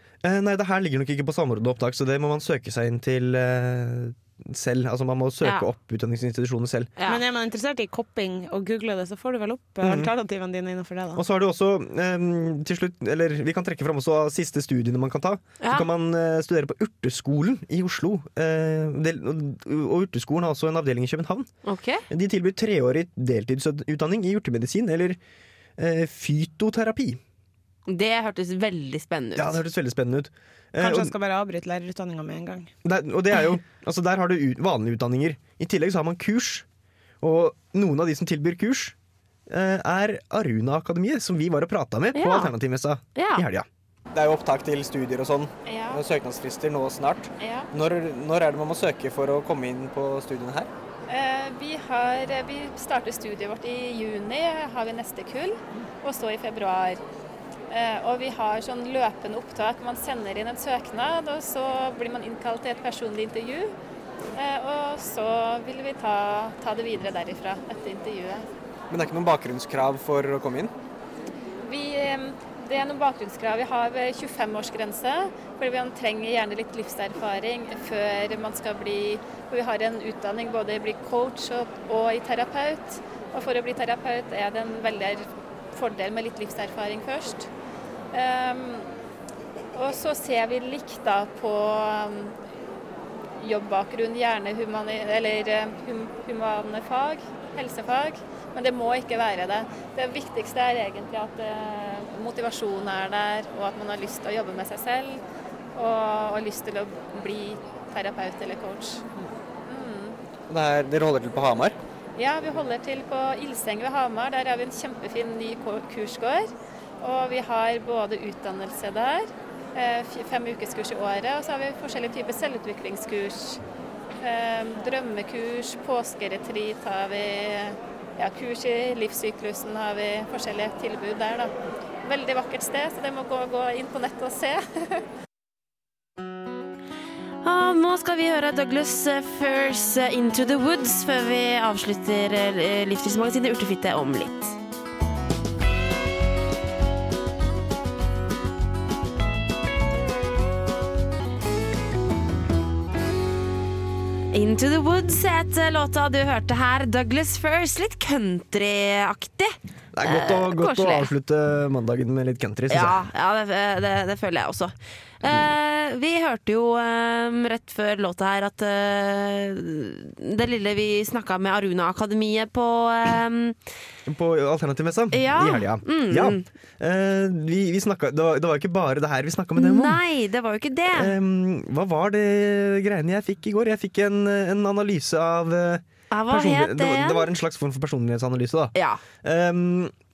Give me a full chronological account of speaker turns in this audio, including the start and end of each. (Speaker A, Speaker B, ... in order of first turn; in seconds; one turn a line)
Speaker A: 0.2-6.9
Speaker B: 5.4-5.7
Speaker C: 7.1-11.2
Speaker A: 9.8-10.1
Speaker A: 11.2-21.5
Speaker B: 15.6-15.9
Speaker B: 21.6-22.1
Speaker A: 22.1-25.2
Speaker A: 25.8-27.2
Speaker B: 27.9-29.6
Speaker A: 29.4-31.1
Speaker C: 30.8-32.7
Speaker A: 32.8-36.7
Speaker A: 37.2-39.0
Speaker A: 39.5-50.7
Speaker B: 42.1-42.5
Speaker B: 43.1-43.5
Speaker D: 45.7-46.0
Speaker D: 47.4-47.7
Speaker D: 51.1-57.0
Speaker D: 57.7-63.7
Speaker D: 64.3-68.5
Speaker A: 68.9-70.7
Speaker D: 71.6-87.5
Speaker D: 88.1-88.9
Speaker D: 89.8-92.4
Speaker D: 93.4-105.2
Speaker D: 105.7-109.0
Speaker D: 109.7-110.2
Speaker A: 110.5-111.8
Speaker D: 112.2-116.5
Speaker D: 117.0-123.6
Speaker D: 124.2-131.5
Speaker D: 132.0-135.0
Speaker B: 137.4-144.6
Speaker B: 154.3-161.1
Speaker A: 159.9-163.0
Speaker B: 162.7-173.6
Speaker A: 165.2-165.5
Speaker A: 174.1-180.0
Speaker B: 175.1-176.5
Speaker B: 179.6-181.2
Speaker A: 180.9-189.9
Speaker B: 186.1-187.3
Speaker B: 188.8-189.0